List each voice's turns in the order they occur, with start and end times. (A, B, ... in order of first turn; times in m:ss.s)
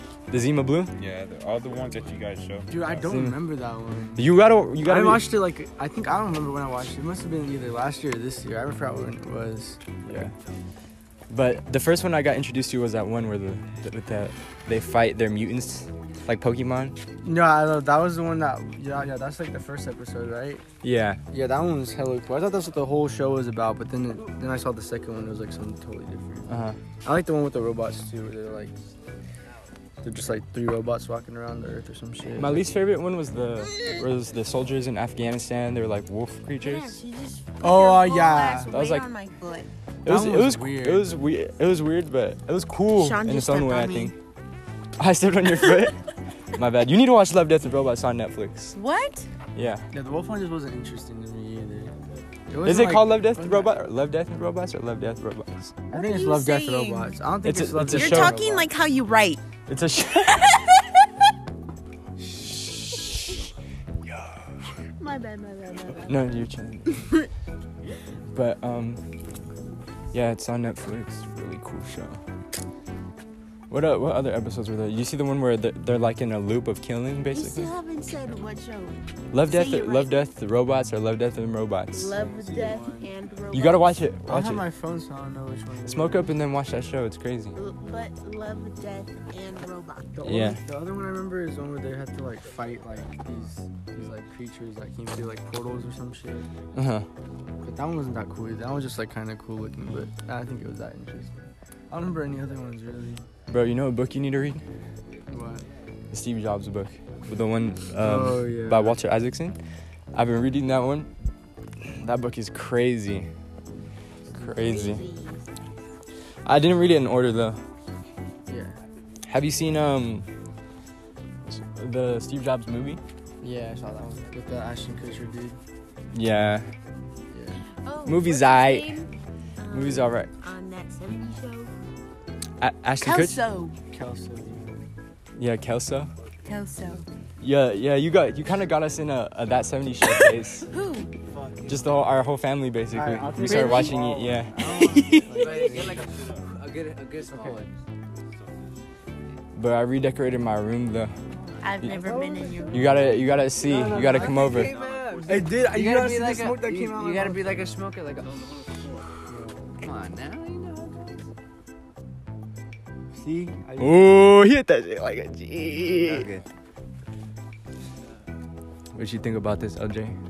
0:00.3-0:00.9 A
0:01.0-0:02.9 B
0:02.7-0:04.3 C
0:03.1-0:03.4 A
0:04.2-0:05.3 A
0:04.8-0:09.8 C
0:10.0-0:10.3 A
0:11.3-0:17.0 A
0:17.2-0:20.6 C
0:20.8-0:21.2 A
0:21.3-0:26.5 C
0:26.5-0:26.8 A
0:27.0-0:28.8 C
0:30.0-0:32.6 C
0:32.4-0:37.0 A
0:36.6-0:39.7 D
0:37.6-0:38.7 C
0:38.7-0:39.1 A
0:40.0-0:44.1 A
0:40.1-0:41.1 C
0:43.0-0:44.1 D
0:45.0-0:46.0 A
0:46.5-0:48.8 A
0:48.8-0:49.3 D
0:49.6-0:49.9 A
0:49.9-0:51.9 C
0:52.5-0:53.7 C
0:52.6-0:55.8 A
0:55.9-0:58.7 C
0:55.9-0:57.2 D
0:57.4-0:58.4 A
0:57.9-0:59.4 D
0:59.7-1:00.6 A
1:00.2-1:00.8 D
1:02.2-1:03.5 A
1:04.1-1:04.5 A
1:05.0-1:06.3 D
1:06.1-1:07.1 A
1:08.3-1:09.0 A
1:10.1-1:12.2 A
1:13.7-1:17.7 A
1:17.3-1:20.2 D
1:19.3-1:22.2 A
1:21.9-1:24.1 D
1:22.1-1:23.1 C
1:23.5-1:24.6 A
1:24.3-1:26.3 C
1:25.8-1:27.6 A
1:27.6-1:30.3 D
1:30.2-1:36.5 C
1:30.2-1:30.6 A
1:36.7-1:37.1 A
1:37.6-1:43.3 C
1:43.5-1:44.6 A
1:45.3-1:45.6 C
1:46.1-1:49.6 A
1:48.0-1:49.0 C
1:50.1-1:51.1 A
1:52.0-1:53.3 A
1:54.3-1:55.4 D
1:54.4-1:55.0 A
1:56.4-1:57.6 A
1:58.5-1:58.8 C
1:59.3-2:00.3 A
2:01.4-2:03.0 A
2:03.4-2:05.6 C
2:06.1-2:06.7 A
2:07.3-2:07.6 C
2:07.8-2:11.7 D
2:08.1-2:08.9 A
2:09.7-2:10.3 A
2:12.6-2:13.4 A
2:13.0-2:13.8 D
2:13.9-2:14.8 C
2:15.4-2:16.1 A
2:16.4-2:17.1 D
2:17.4-2:20.7 A
2:20.7-2:21.1 D
2:21.3-2:21.8 E
2:21.7-2:25.4 A
2:22.9-2:26.1 C
2:23.4-2:24.0 D
2:25.3-2:27.8 E
2:25.4-2:25.7 D
2:27.3-2:27.7 C
2:28.2-2:28.8 B
2:29.6-2:31.2 A
2:31.4-2:33.0 D
2:31.9-2:33.0 C
2:32.7-2:34.7 A
2:33.6-2:34.6 C
2:33.7-2:38.7 E
2:34.5-2:35.4 B
2:35.2-2:37.6 C
2:39.3-2:39.6 C
2:39.8-2:41.3 E
2:43.1-2:44.3 C
2:43.8-2:46.3 A
2:45.8-2:46.4 E
2:48.9-2:50.2 A